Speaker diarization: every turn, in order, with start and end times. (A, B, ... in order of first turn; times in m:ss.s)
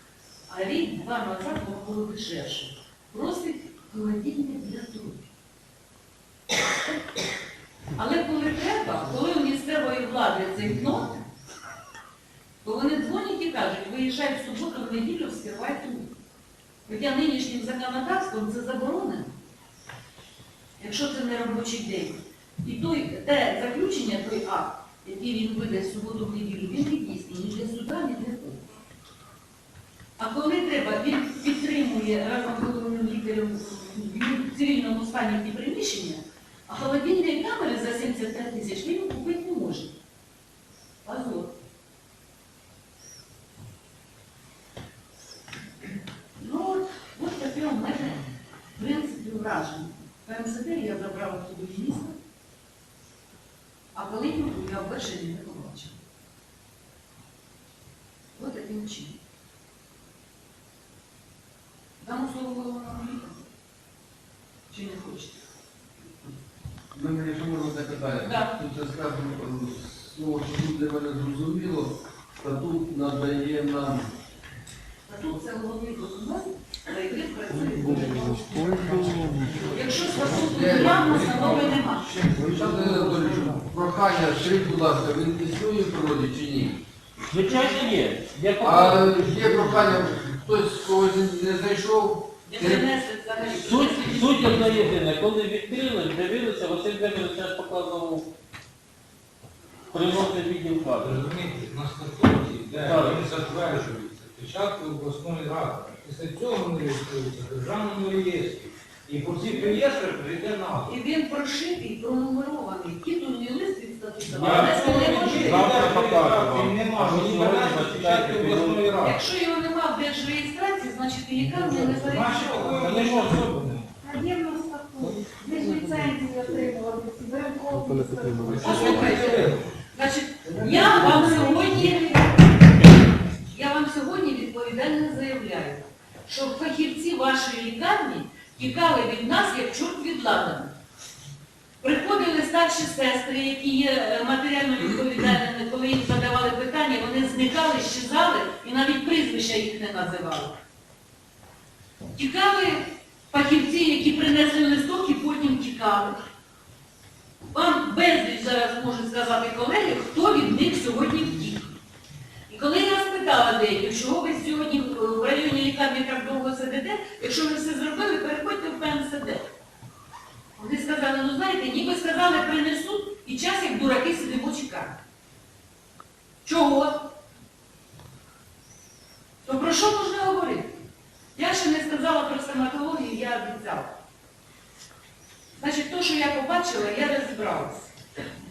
0:00.5-0:05.3 A
0:07.9-0:11.2 A
0:12.6-0:16.1 A
0:16.8-0:19.3 A
0:20.8-0:28.6 A
0:30.2-0:40.0 A
0:41.0-0:41.5 A
0:46.4-0:52.2 A
0:53.9-0:56.0 A
0:58.4-0:59.2 A
1:02.0-1:03.4 A
1:04.7-1:05.4 A
1:06.9-1:14.1 B
1:08.2-1:08.6 A
1:15.1-1:22.1 A
1:17.6-1:26.8 B
1:18.7-1:19.8 C
1:20.5-1:21.7 C
1:22.2-1:23.6 C
1:27.3-1:30.1 D
1:28.6-1:32.8 B
1:32.4-1:34.9 A
1:33.4-1:38.3 D
1:39.9-1:41.2 D
1:41.0-1:50.9 C
1:42.8-1:43.2 D
1:50.8-1:56.0 A
1:54.3-1:59.0 D
1:54.3-1:59.2 C
1:59.0-2:02.9 A
2:02.0-2:03.9 C
2:02.6-2:03.4 D
2:04.0-2:09.6 E
2:05.4-2:06.5 A
2:08.0-2:08.6 B
2:08.4-2:09.6 C
2:08.6-2:12.4 A
2:10.6-2:12.0 E
2:10.6-2:11.1 C
2:13.5-2:20.7 A
2:21.8-2:30.6 A
2:32.1-2:36.2 A
2:37.5-2:41.7 A
2:42.5-2:49.5 A
2:50.6-2:55.0 A
2:56.4-2:57.1 A
2:59.4-3:00.7 A
3:01.4-3:03.9 A
3:05.6-3:07.9 A